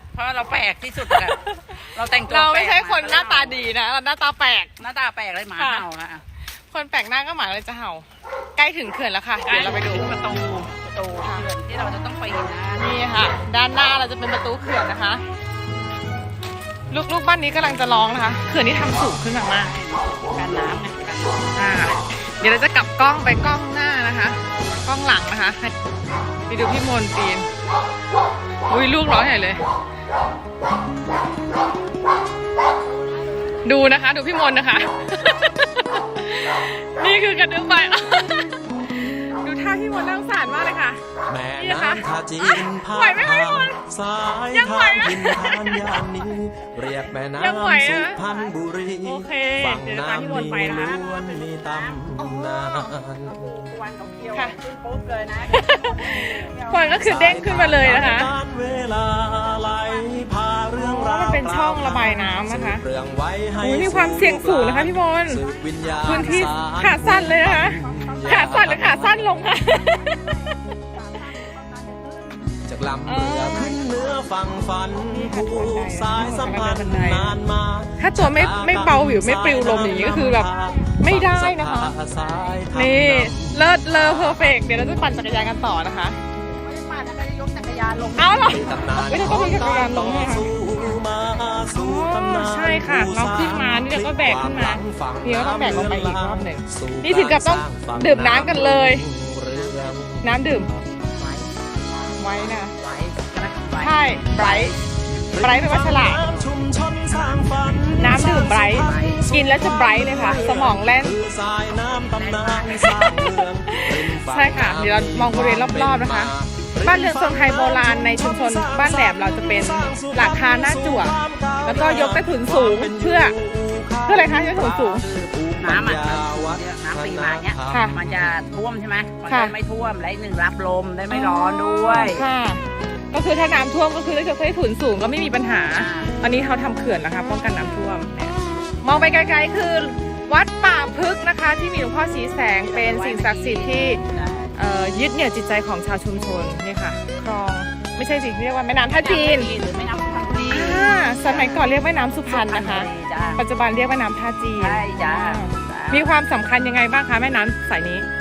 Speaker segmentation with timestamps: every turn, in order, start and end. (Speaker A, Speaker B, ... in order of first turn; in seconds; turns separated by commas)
Speaker A: 0.1-1.4, Speaker B: 1.1-4.7, Speaker A: 1.9-3.6, Speaker A: 4.8-6.2, Speaker B: 5.6-5.9, Speaker B: 6.5-10.1, Speaker A: 9.4-12.9, Speaker B: 12.8-15.2, Speaker B: 16.9-19.8, Speaker A: 19.5-21.5, Speaker B: 21.6-25.7, Speaker B: 26.5-27.5, Speaker B: 28.7-29.6, Speaker B: 33.6-41.0, Speaker C: 41.3-53.4, Speaker B: 41.6-43.8, Speaker B: 44.5-46.0, Speaker B: 47.4-48.2, Speaker A: 48.1-48.9, Speaker B: 49.0-51.0, Speaker A: 50.5-52.0, Speaker B: 52.2-53.0, Speaker A: 53.2-57.3, Speaker B: 55.5-58.3, Speaker C: 57.0-69.0, Speaker A: 58.0-58.4, Speaker A: 59.4-60.3, Speaker B: 60.8-62.8, Speaker B: 63.6-65.4, Speaker A: 65.4-66.6, Speaker B: 66.0-70.6, Speaker A: 67.4-72.7, Speaker C: 72.7-83.6, Speaker B: 73.1-73.8, Speaker A: 73.4-74.7, Speaker B: 75.0-77.4, Speaker B: 78.0-82.0, Speaker A: 80.7-80.9, Speaker A: 82.1-82.7, Speaker B: 82.7-86.2, Speaker A: 83.8-85.2, Speaker A: 86.3-89.2, Speaker B: 88.2-90.5, Speaker C: 88.5-100.4, Speaker A: 90.5-91.7, Speaker B: 91.7-99.0, Speaker A: 99.5-105.0, Speaker B: 100.2-100.7, Speaker B: 102.2-102.7, Speaker B: 103.8-104.7, Speaker C: 105.3-128.4, Speaker B: 105.4-106.3, Speaker A: 106.1-107.9, Speaker B: 108.0-111.2, Speaker A: 108.7-109.3, Speaker A: 112.1-112.9, Speaker B: 112.7-123.3, Speaker B: 124.1-125.1, Speaker A: 125.0-132.2, Speaker B: 127.7-128.0, Speaker B: 129.3-129.6, Speaker B: 131.1-132.6, Speaker B: 133.1-144.0, Speaker A: 135.7-136.2, Speaker A: 142.6-144.6, Speaker B: 144.6-149.5, Speaker A: 148.9-151.7, Speaker B: 150.5-158.1, Speaker A: 152.3-153.4, Speaker A: 154.6-156.1